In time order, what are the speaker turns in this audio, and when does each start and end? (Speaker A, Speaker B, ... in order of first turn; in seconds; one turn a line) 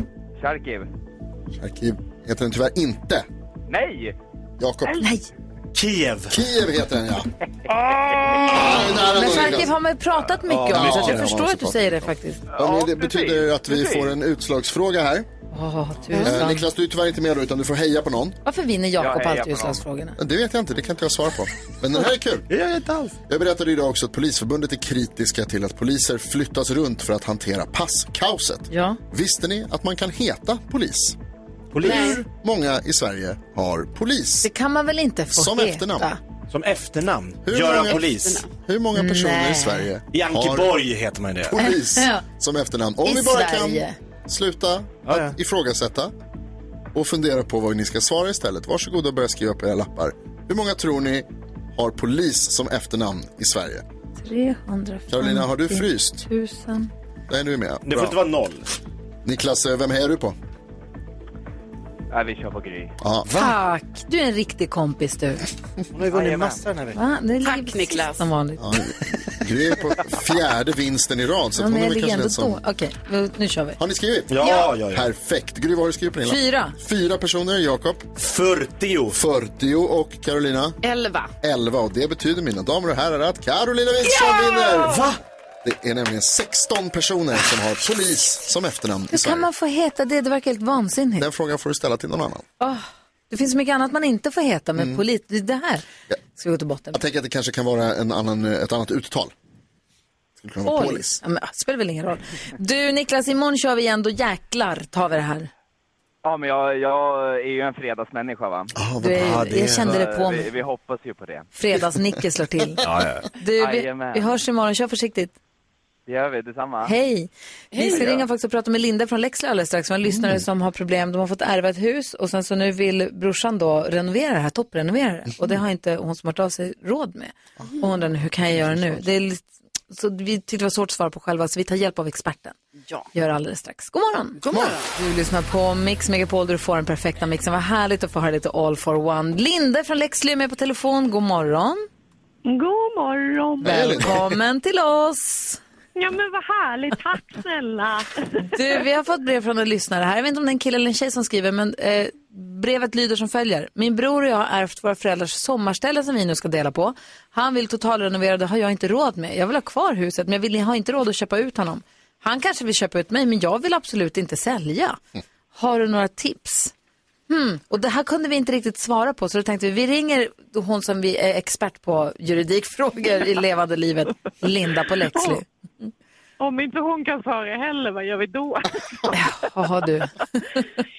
Speaker A: 0.4-0.9
Speaker B: 1.5-3.2
Speaker A: 3.7-4.2
Speaker B: 4.6-5.0
Speaker C: 5.0-5.3
Speaker D: 5.7-6.3
Speaker B: 6.3-7.3
Speaker B: 8.4-9.7
Speaker C: 8.5-12.4
Speaker D: 10.6-11.2
Speaker B: 10.6-12.1
Speaker A: 12.5-14.2
Speaker B: 12.6-15.3
Speaker C: 15.5-16.6
Speaker B: 16.2-18.4
Speaker C: 18.4-20.2
Speaker A: 19.0-19.8
Speaker B: 20.2-22.5
Speaker D: 22.5-23.1
Speaker B: 23.3-31.2
Speaker C: 28.7-29.0
Speaker D: 31.7-32.2
Speaker B: 31.8-34.5
Speaker C: 34.4-36.2
Speaker B: 35.3-36.1
Speaker D: 36.5-38.4
Speaker B: 37.4-40.7
Speaker E: 37.6-38.5
Speaker C: 38.9-39.9
Speaker D: 40.1-41.5
Speaker B: 41.5-46.1
Speaker C: 41.6-42.2
Speaker C: 43.0-44.0
Speaker D: 45.0-45.3
Speaker B: 46.9-53.8
Speaker C: 54.2-56.9
Speaker B: 55.1-56.2
Speaker B: 57.3-58.2
Speaker D: 57.8-58.6
Speaker B: 59.2-60.4
Speaker A: 62.1-63.0
Speaker B: 63.0-63.3
Speaker C: 63.3-65.4
Speaker D: 65.9-67.0
Speaker C: 66.9-68.6
Speaker E: 67.4-68.3
Speaker B: 68.6-72.6
Speaker C: 71.6-73.8
Speaker B: 73.8-78.1
Speaker D: 74.3-75.0
Speaker C: 76.2-76.8
Speaker D: 78.2-79.2
Speaker B: 79.1-80.8
Speaker E: 80.8-81.3
Speaker B: 81.4-85.0
Speaker E: 84.1-84.9
Speaker D: 84.9-85.2
Speaker B: 85.6-89.5
Speaker C: 89.1-91.3
Speaker B: 91.2-92.5
Speaker C: 92.6-95.8
Speaker B: 94.8-95.0
Speaker C: 96.3-97.0
Speaker B: 96.9-99.3
Speaker B: 100.4-101.2
Speaker C: 100.6-105.5
Speaker A: 106.2-108.7
Speaker B: 108.8-109.8
Speaker C: 109.0-110.5
Speaker D: 109.2-109.9
Speaker A: 109.8-111.5
Speaker C: 111.5-112.8
Speaker D: 112.8-113.3
Speaker C: 113.3-115.3
Speaker A: 113.5-114.4
Speaker A: 116.1-117.0
Speaker C: 116.8-132.6
Speaker A: 117.7-118.2
Speaker B: 128.6-129.0
Speaker C: 133.1-141.8
Speaker E: 134.4-134.9
Speaker B: 134.5-134.8
Speaker F: 142.4-143.7
Speaker B: 143.6-144.3
Speaker C: 143.6-145.6
Speaker F: 145.9-148.3
Speaker C: 148.4-165.0
Speaker C: 165.5-166.7
Speaker C: 167.3-175.4
Speaker F: 175.1-175.4
Speaker F: 176.4-179.2
Speaker C: 179.1-180.6